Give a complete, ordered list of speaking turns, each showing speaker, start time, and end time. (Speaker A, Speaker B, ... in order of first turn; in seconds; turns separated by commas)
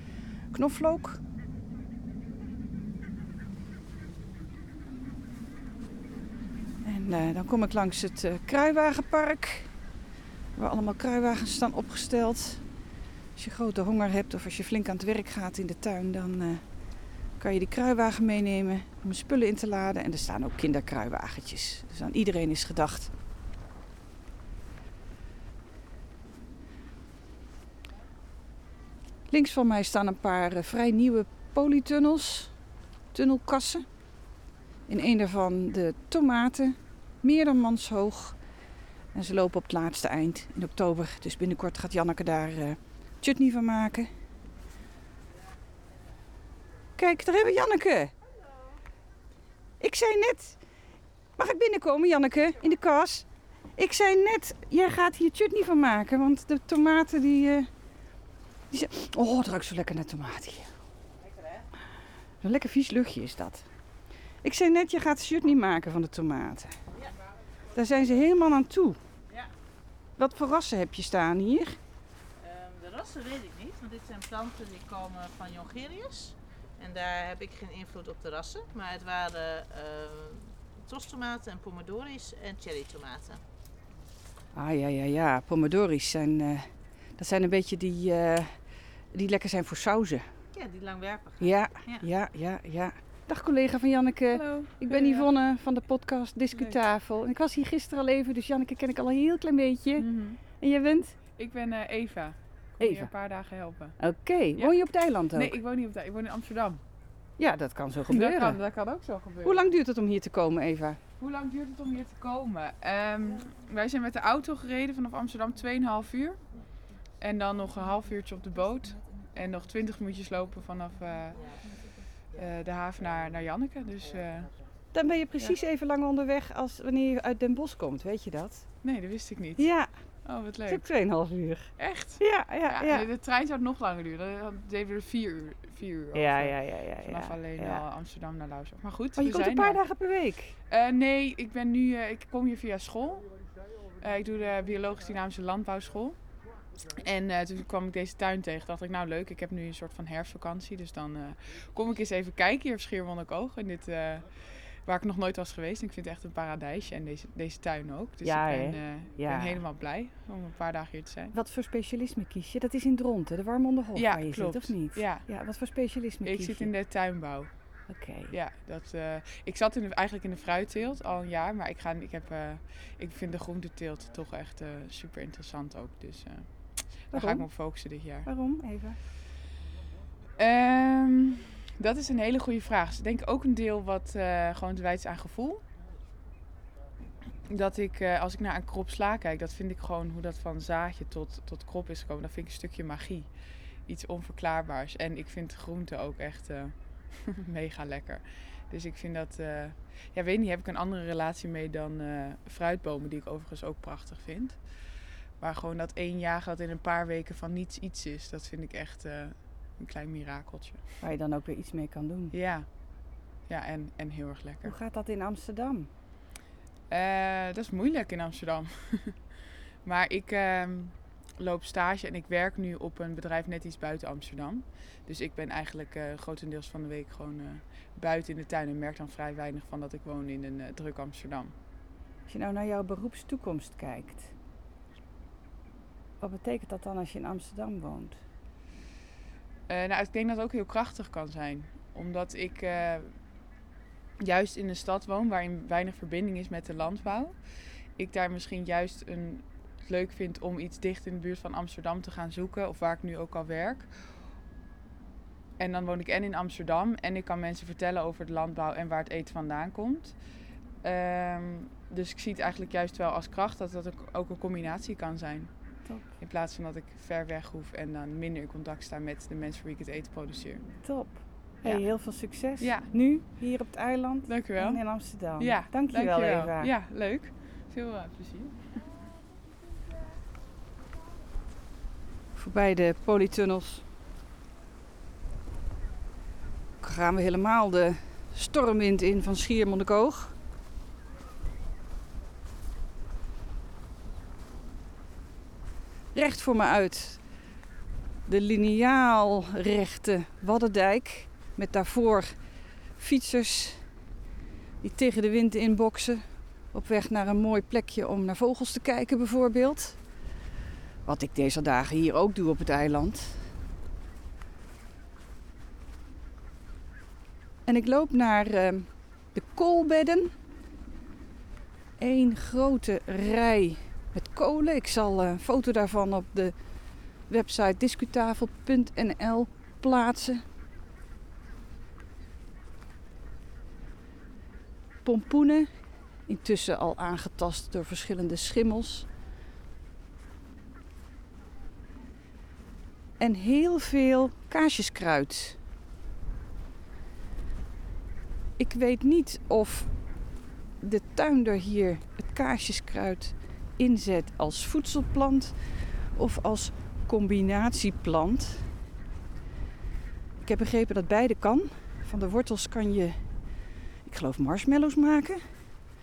Speaker A: 0.5-1.2, Speaker A: 6.8-9.7, Speaker A: 10.6-12.7, Speaker A: 13.4-16.6, Speaker A: 17.4-23.1, Speaker A: 29.3-32.5, Speaker A: 33.1-33.9, Speaker A: 34.9-38.4, Speaker A: 39.1-44.1, Speaker A: 47.0-48.1, Speaker A: 49.8-50.6, Speaker A: 51.4-57.7, Speaker A: 58.7-60.8, Speaker A: 62.4-63.7, Speaker A: 64.4-66.8, Speaker A: 67.7-69.0, Speaker A: 70.2-71.8, Speaker B: 72.4-83.4, Speaker A: 84.5-90.3, Speaker B: 90.5-92.1, Speaker A: 91.4-100.1, Speaker C: 94.3-95.3, Speaker C: 100.0-100.4, Speaker A: 100.6-101.2, Speaker C: 101.4-104.0, Speaker A: 102.8-103.1, Speaker A: 104.0-105.6, Speaker C: 105.3-106.8, Speaker A: 107.4-108.6, Speaker C: 108.1-109.7, Speaker A: 109.4-111.0, Speaker C: 111.2-116.4, Speaker C: 117.2-121.5, Speaker C: 122.3-124.5, Speaker A: 124.9-128.7, Speaker C: 128.8-130.9, Speaker A: 129.6-129.9, Speaker A: 130.7-133.1, Speaker C: 131.8-139.8, Speaker A: 136.1-137.8, Speaker A: 139.2-140.6, Speaker C: 140.7-143.3, Speaker C: 144.0-146.2, Speaker C: 147.0-161.3, Speaker A: 158.2-159.6, Speaker A: 161.3-166.7, Speaker C: 163.9-165.3, Speaker C: 166.2-167.5, Speaker A: 167.9-168.3, Speaker C: 168.3-178.3, Speaker A: 177.1-179.0, Speaker C: 180.4-185.6, Speaker C: 187.5-193.3, Speaker C: 193.9-204.7, Speaker C: 205.4-210.9, Speaker A: 211.0-212.3, Speaker C: 212.3-212.7, Speaker C: 213.5-214.8, Speaker A: 214.6-215.9, Speaker C: 216.9-219.3, Speaker C: 219.8-231.5, Speaker A: 232.3-234.3, Speaker A: 236.2-238.2, Speaker C: 239.7-243.2, Speaker C: 244.2-247.4, Speaker C: 248.0-253.9, Speaker C: 255.6-260.2, Speaker C: 260.8-265.6, Speaker A: 265.9-266.1, Speaker C: 266.1-270.7, Speaker A: 270.8-276.7, Speaker C: 271.6-271.9, Speaker C: 272.6-272.9, Speaker C: 274.3-278.8, Speaker A: 282.4-283.9, Speaker A: 286.8-290.4, Speaker A: 296.1-297.3, Speaker A: 298.3-303.9, Speaker A: 304.8-310.0, Speaker A: 311.1-313.5, Speaker A: 317.7-320.3, Speaker A: 322.0-326.6, Speaker A: 327.2-330.4, Speaker A: 335.0-339.1, Speaker A: 343.2-345.6, Speaker A: 348.6-350.1, Speaker A: 350.8-358.8, Speaker A: 360.4-365.8